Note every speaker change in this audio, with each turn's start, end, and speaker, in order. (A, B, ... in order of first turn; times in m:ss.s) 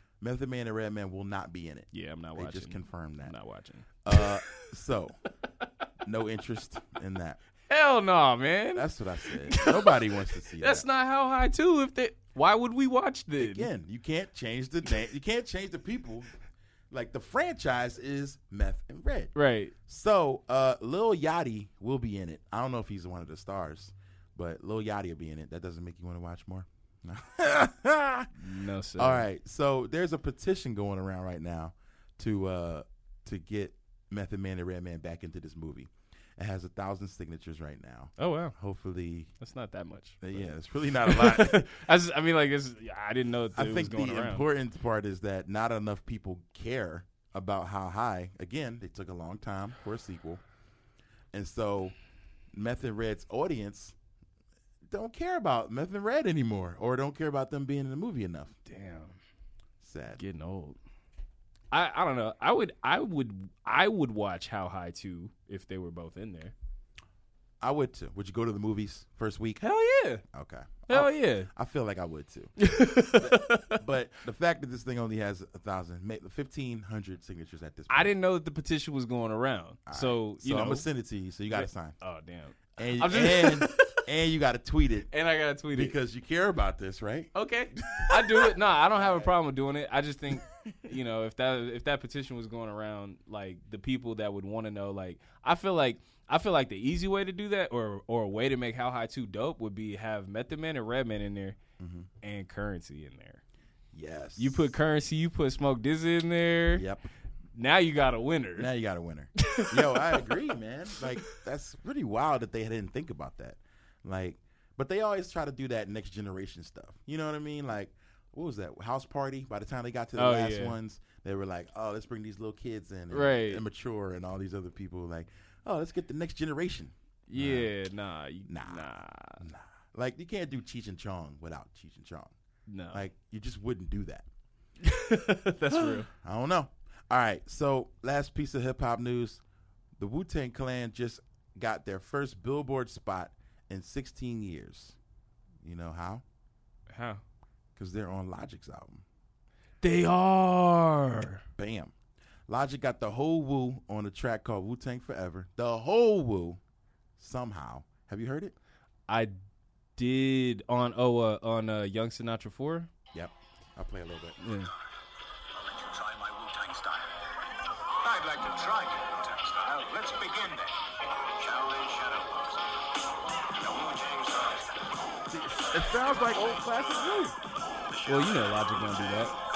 0:00.2-0:03.3 A
0:01.9-0:04.7 B
0:04.0-0:05.2 A
0:06.0-0:07.4 A
0:07.7-0:08.9 B
0:08.8-0:10.8 A
0:09.4-0:10.0 B
0:10.6-0:13.7 B
0:13.4-0:16.3 A
0:16.9-0:19.3 A
0:19.4-0:19.7 B
0:19.9-0:28.3 A
0:28.4-0:29.2 B
0:29.0-0:39.3 A
0:38.2-0:38.6 B
0:39.4-0:40.5 B
0:40.2-0:41.7 A
0:41.0-0:44.5 B
0:43.6-0:50.4 A
0:51.3-0:52.0 A
0:52.5-0:54.0 A
0:54.9-0:58.6 A
0:58.7-0:59.2 B
0:59.8-1:00.2 A
1:00.2-1:00.8 B
1:01.7-1:06.5 B
1:07.6-1:09.6 A
1:09.6-1:10.2 B
1:10.3-1:12.5 A
1:10.9-1:11.5 B
1:12.6-1:13.8 B
1:13.1-1:18.1 A
1:17.9-1:20.9 B
1:19.9-1:22.0 A
1:21.5-1:24.0 B
1:22.8-1:25.1 A
1:25.1-1:26.0 B
1:25.7-1:27.3 A
1:27.4-1:41.6 B
1:28.0-1:29.3 A
1:41.8-1:42.1 A
1:42.2-1:43.4 B
1:43.9-1:44.7 A
1:44.4-1:46.9 B
1:46.8-1:47.1 A
1:47.6-1:48.7 B
1:48.6-2:07.7 A
1:49.4-1:50.4 B
1:51.0-1:51.3 B
2:00.2-2:00.8 B
2:03.1-2:03.6 B
2:07.3-2:09.4 B
2:08.5-2:12.3 A
2:12.7-2:13.1 B
2:12.9-2:14.3 A
2:14.8-2:16.1 B
2:15.7-2:19.4 A
2:20.0-2:25.0 A
2:25.6-2:26.2 A
2:26.9-2:27.2 B
2:27.8-2:29.0 A
2:29.8-2:31.4 B
2:31.6-2:31.9 A
2:32.5-2:36.6 A
2:37.2-2:38.6 A
2:39.1-2:39.3 B
2:40.0-2:42.9 B
2:43.1-2:44.4 A
2:44.4-2:44.7 B
2:45.5-2:47.1 C
2:48.0-2:52.8 C
2:53.5-2:55.1 C
2:55.3-2:57.4 A
2:58.0-2:59.3 C
2:58.1-2:59.3 B